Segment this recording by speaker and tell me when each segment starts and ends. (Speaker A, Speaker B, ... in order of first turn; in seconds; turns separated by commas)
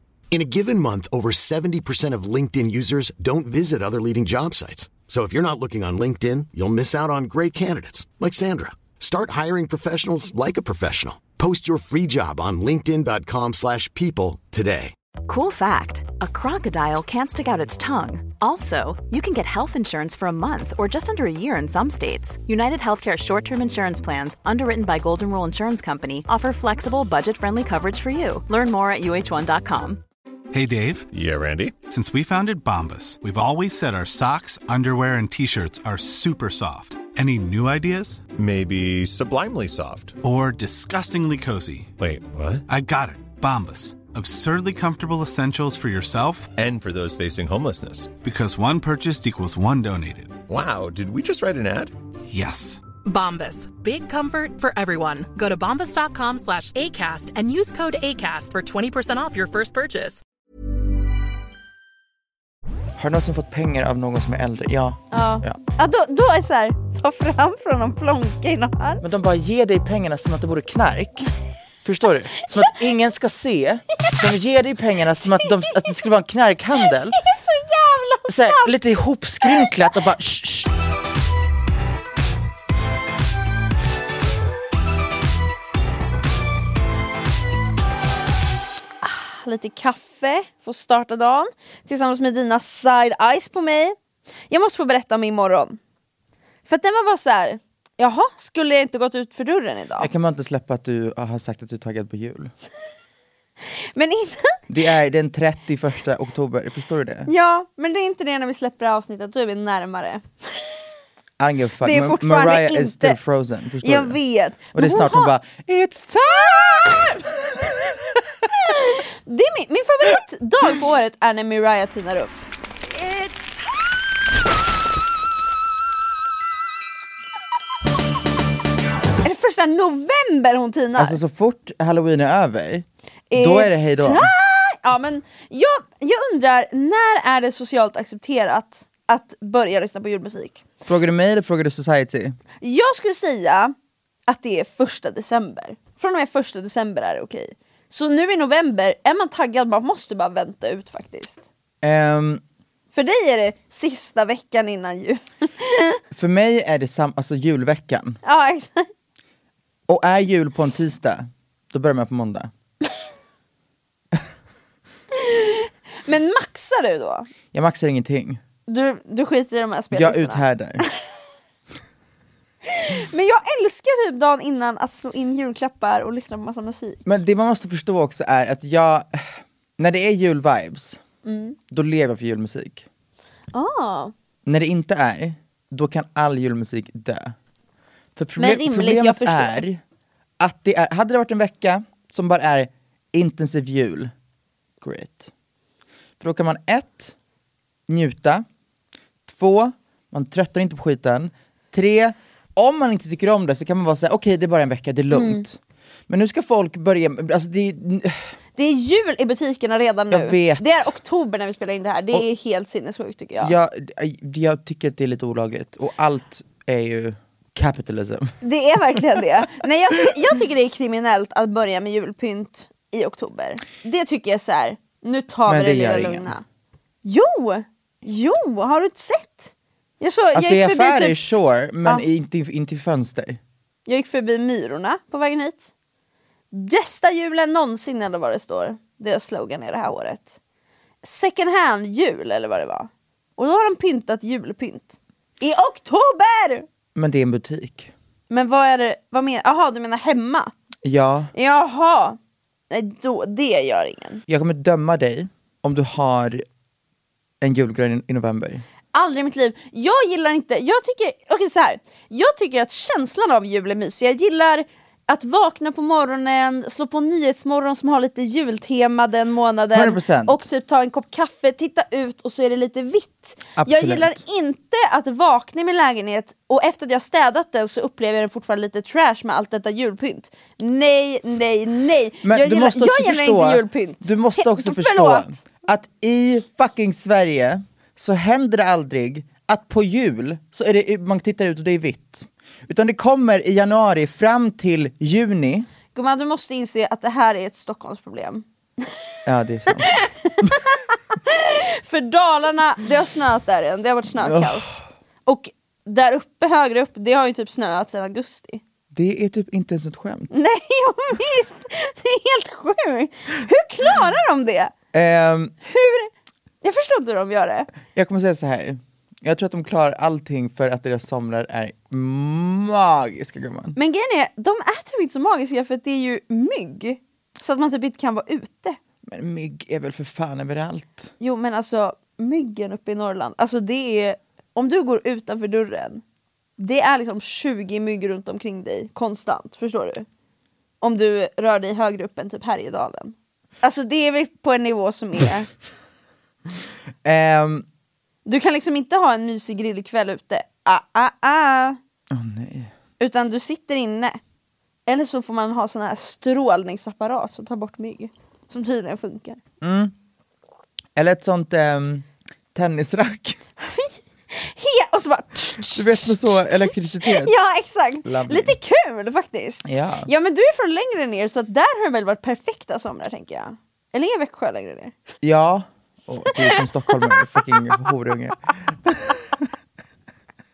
Speaker A: 0.3-14.9, Speaker B: 15.3-30.0, Speaker C: 30.5-31.1, Speaker D: 31.1-31.8, Speaker C: 31.9-38.2, Speaker D: 38.4-40.2, Speaker C: 40.2-41.9, Speaker D: 42.0-42.6, Speaker C: 42.7-46.5, Speaker D: 46.6-48.1, Speaker C: 48.2-50.4, Speaker D: 50.5-51.9, Speaker C: 52.3-52.8, Speaker E: 53.0-60.2, Speaker F: 63.0-65.6, Speaker G: 65.1-69.0, Speaker F: 69.0-71.3, Speaker F: 71.8-77.2, Speaker G: 75.4-75.9, Speaker G: 76.9-78.7, Speaker F: 78.3-80.7, Speaker G: 79.4-79.7, Speaker G: 89.0-94.0, Speaker G: 94.5-95.8, Speaker G: 96.7-100.1, Speaker F: 100.0-102.5, Speaker G: 104.0-104.6, Speaker F: 104.7-107.3, Speaker G: 107.3-110.6, Speaker F: 111.4-114.2, Speaker G: 111.8-113.2, Speaker G: 113.8-115.3, Speaker F: 114.7-117.2, Speaker G: 118.7-122.4, Speaker G: 129.2-131.2, Speaker F: 131.0-134.3, Speaker G: 133.3-140.6, Speaker F: 140.9-142.4, Speaker G: 142.6-143.7, Speaker G: 144.3-151.5, Speaker F: 151.8-152.4, Speaker G: 152.9-156.0, Speaker F: 156.1-158.2, Speaker G: 158.2-158.9, Speaker F: 159.9-162.5, Speaker G: 165.1-167.3, Speaker F: 167.5-168.4, Speaker G: 168.7-170.5, Speaker F: 169.9-170.8, Speaker G: 172.7-177.0, Speaker F: 177.1-181.0, Speaker G: 181.2-181.6, Speaker F: 181.7-182.9, Speaker G: 183.5-184.1, Speaker F: 184.4-187.3, Speaker F: 188.2-189.8, Speaker G: 188.4-189.6, Speaker F: 190.4-194.1, Speaker F: 194.8-195.3, Speaker F: 196.2-197.2, Speaker F: 197.9-198.5, Speaker F: 199.3-208.2, Speaker G: 205.1-205.4, Speaker G: 208.6-213.6, Speaker F: 210.1-210.9, Speaker F: 213.4-218.4, Speaker G: 218.4-226.4, Speaker F: 225.5-226.3, Speaker G: 227.0-231.2, Speaker F: 230.3-233.4, Speaker G: 233.9-235.7, Speaker G: 236.5-240.4, Speaker G: 241.0-246.7, Speaker F: 246.9-247.9, Speaker G: 248.3-250.5, Speaker F: 250.8-251.3, Speaker G: 251.3-252.2, Speaker G: 252.7-254.2, Speaker F: 254.3-256.4, Speaker F: 257.4-258.6, Speaker G: 258.9-285.4, Speaker F: 269.7-270.5, Speaker F: 273.6-274.2, Speaker F: 282.2-295.7, Speaker G: 295.9-299.0, Speaker F: 299.3-300.5, Speaker G: 299.7-308.6, Speaker F: 304.2-304.8, Speaker F: 308.9-310.3, Speaker G: 310.3-314.7, Speaker F: 314.9-315.6, Speaker G: 315.6-316.1, Speaker G: 316.6-317.7, Speaker F: 317.9-323.8, Speaker G: 323.8-328.8, Speaker F: 329.1-331.1, Speaker G: 331.2-336.0, Speaker G: 336.6-340.1, Speaker G: 340.8-345.5, Speaker F: 347.0-347.7, Speaker G: 348.3-351.8, Speaker F: 352.1-352.7, Speaker G: 353.0-354.2, Speaker G: 354.9-359.4, Speaker F: 359.6-359.9, Speaker F: 361.0-363.4, Speaker G: 363.6-366.2, Speaker F: 365.7-367.4, Speaker G: 367.0-374.9, Speaker F: 368.1-368.6, Speaker F: 369.6-370.1, Speaker F: 375.2-379.5, Speaker G: 376.4-377.9